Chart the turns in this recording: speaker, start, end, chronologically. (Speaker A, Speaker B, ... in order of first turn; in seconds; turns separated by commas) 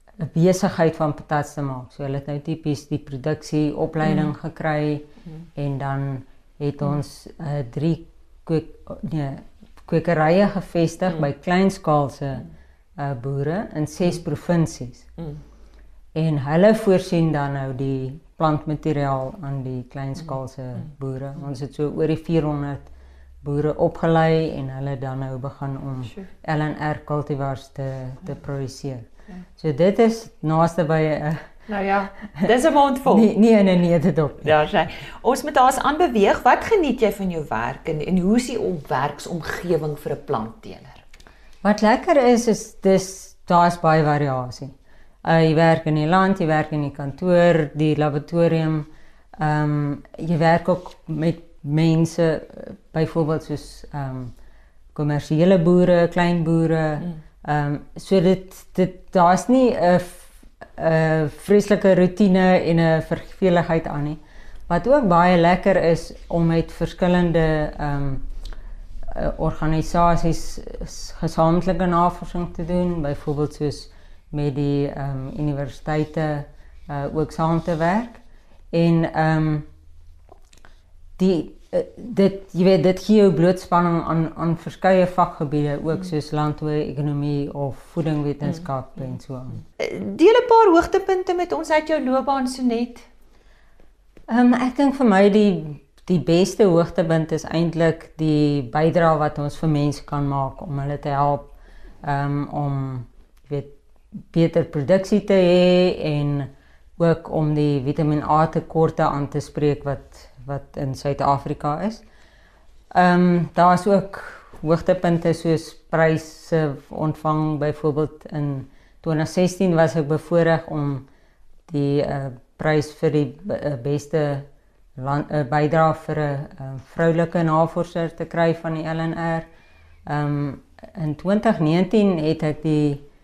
Speaker A: 0.2-15.1, Speaker A: 16.1-22.9, Speaker A: 23.4-31.5, Speaker B: 31.7-33.3, Speaker A: 33.1-34.5, Speaker B: 34.4-41.0, Speaker A: 41.6-44.7, Speaker A: 45.2-54.3, Speaker A: 54.9-68.2, Speaker A: 69.1-78.2, Speaker A: 78.7-79.7, Speaker A: 81.2-89.6, Speaker B: 89.8-93.1, Speaker A: 94.3-101.5, Speaker A: 102.0-103.8, Speaker A: 104.3-112.0, Speaker A: 112.9-121.0, Speaker A: 121.7-124.5, Speaker A: 125.0-129.5, Speaker A: 130.1-133.0